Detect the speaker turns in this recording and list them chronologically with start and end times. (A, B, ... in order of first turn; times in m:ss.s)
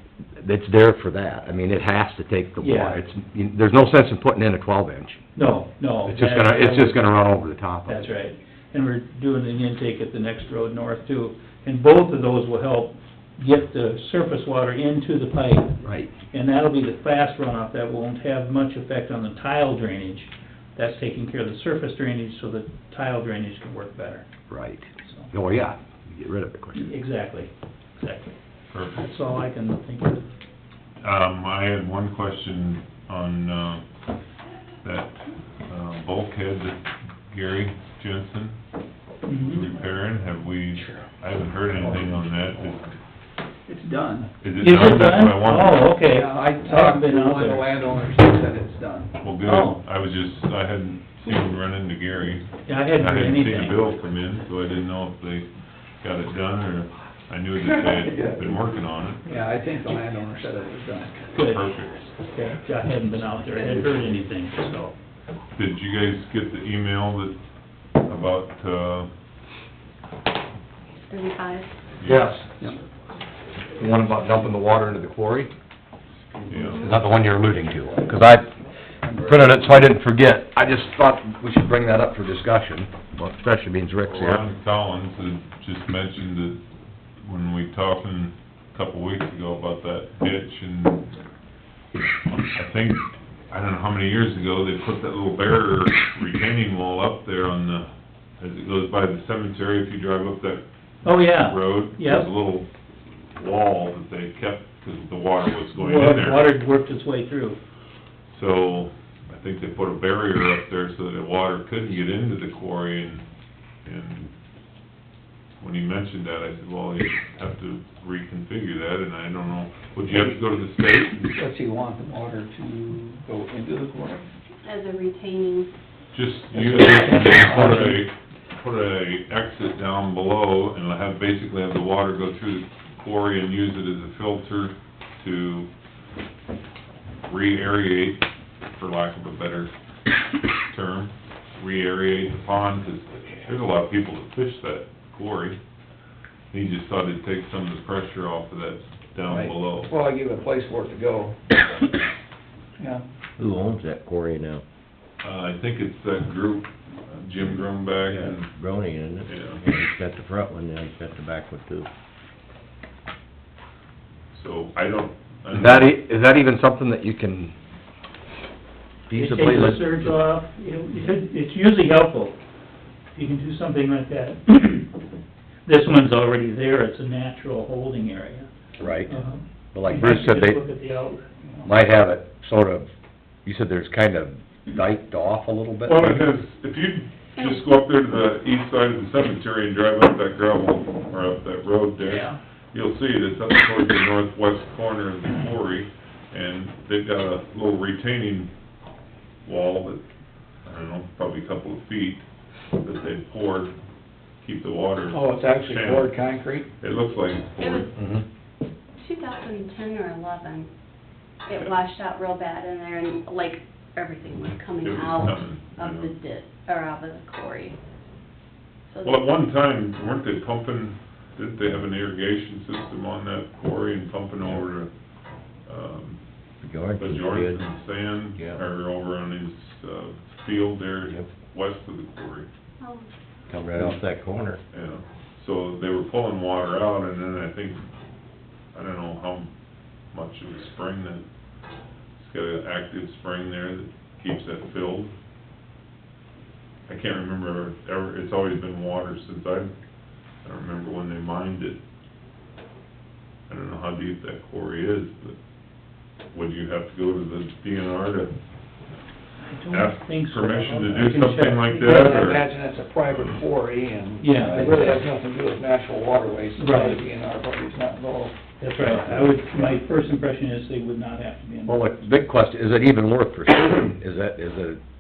0:00.4-0:05.2 A
0:02.6-0:03.0 B
0:05.3-0:07.1 B
0:06.0-0:08.1 A
0:07.9-0:15.8 B
0:15.8-0:16.1 A
0:16.3-0:24.3 B
0:24.5-0:26.9 A
0:25.0-0:25.3 B
0:26.7-0:28.3 B
0:28.7-0:29.1 C
0:28.9-0:30.2 B
0:31.0-0:33.8 C
0:34.8-0:36.8 C
0:37.3-0:38.6 C
0:39.2-0:39.7 B
0:39.4-0:42.9 C
0:40.8-0:41.0 D
0:41.7-0:42.7 D
0:43.7-0:44.3 D
0:44.4-0:46.0 C
0:44.6-0:47.7 B
0:46.1-0:49.1 D
0:49.2-0:55.5 C
0:49.4-0:49.8 B
0:52.6-0:53.9 B
0:56.0-0:59.3 C
0:57.6-0:58.6 D
0:59.2-1:01.6 D
1:01.3-1:04.9 B
1:01.4-1:02.1 C
1:05.6-1:07.4 C
1:08.0-1:09.1 C
1:11.1-1:11.7 E
1:12.0-1:12.3 C
1:12.0-1:12.6 A
1:13.8-1:15.5 A
1:16.5-1:16.8 C
1:16.6-1:16.9 E
1:16.8-1:18.5 A
1:19.0-1:19.8 D
1:19.2-1:24.4 A
1:24.0-1:26.6 C
1:27.2-1:31.1 C
1:32.5-1:42.7 C
1:41.0-1:42.3 B
1:43.3-1:46.4 C
1:45.7-1:47.6 B
1:48.3-1:53.2 C
1:53.8-1:54.3 C
1:55.6-2:01.3 C
2:01.2-2:04.3 D
2:04.6-2:05.7 E
2:06.1-2:15.7 C
2:06.6-2:07.9 D
2:17.3-2:19.7 C
2:20.7-2:25.6 C
2:26.5-2:29.9 C
2:29.3-2:31.4 D
2:33.4-2:34.6 F
2:35.2-2:38.5 C
2:38.0-2:41.9 F
2:39.2-2:39.6 C
2:44.3-2:45.9 C
2:45.5-2:47.5 A
2:49.1-2:50.2 A
2:49.1-2:52.4 B
2:53.2-2:54.9 B
2:55.7-2:58.5 B
2:58.8-2:59.2 A
2:59.1-3:01.2 B
2:59.7-3:00.6 A
3:01.6-3:02.9 A
3:03.4-3:06.2 A
3:05.9-3:18.5 C
3:07.4-3:07.6 E
3:12.0-3:12.4 B
3:19.4-3:20.0 C
3:20.6-3:22.2 C
3:22.8-3:23.7 C
3:24.4-3:26.1 C
3:25.1-3:26.7 D
3:26.8-3:27.9 C
3:27.6-3:27.9 E
3:28.0-3:28.2 A
3:29.0-3:30.7 E
3:31.4-3:37.8 E
3:34.8-3:36.1 C
3:38.9-3:39.3 E
3:39.0-3:44.9 C
3:45.7-3:46.2 C
3:46.6-3:47.7 F
3:47.0-3:52.5 C
3:48.4-3:48.6 F
3:52.8-3:53.1 E
3:53.5-3:54.6 F
3:54.7-3:57.8 C
3:58.7-3:59.5 C
4:00.1-4:01.2 C
4:02.2-4:05.1 C
4:06.9-4:09.7 C
4:10.4-4:11.8 C
4:13.5-4:15.4 C
4:16.3-4:18.3 C
4:19.4-4:22.3 B
4:19.7-4:22.4 C
4:21.8-4:28.4 D
4:24.2-4:25.0 B
4:26.6-4:27.0 B
4:28.6-4:31.9 B
4:28.8-4:29.7 A
4:31.7-4:34.8 A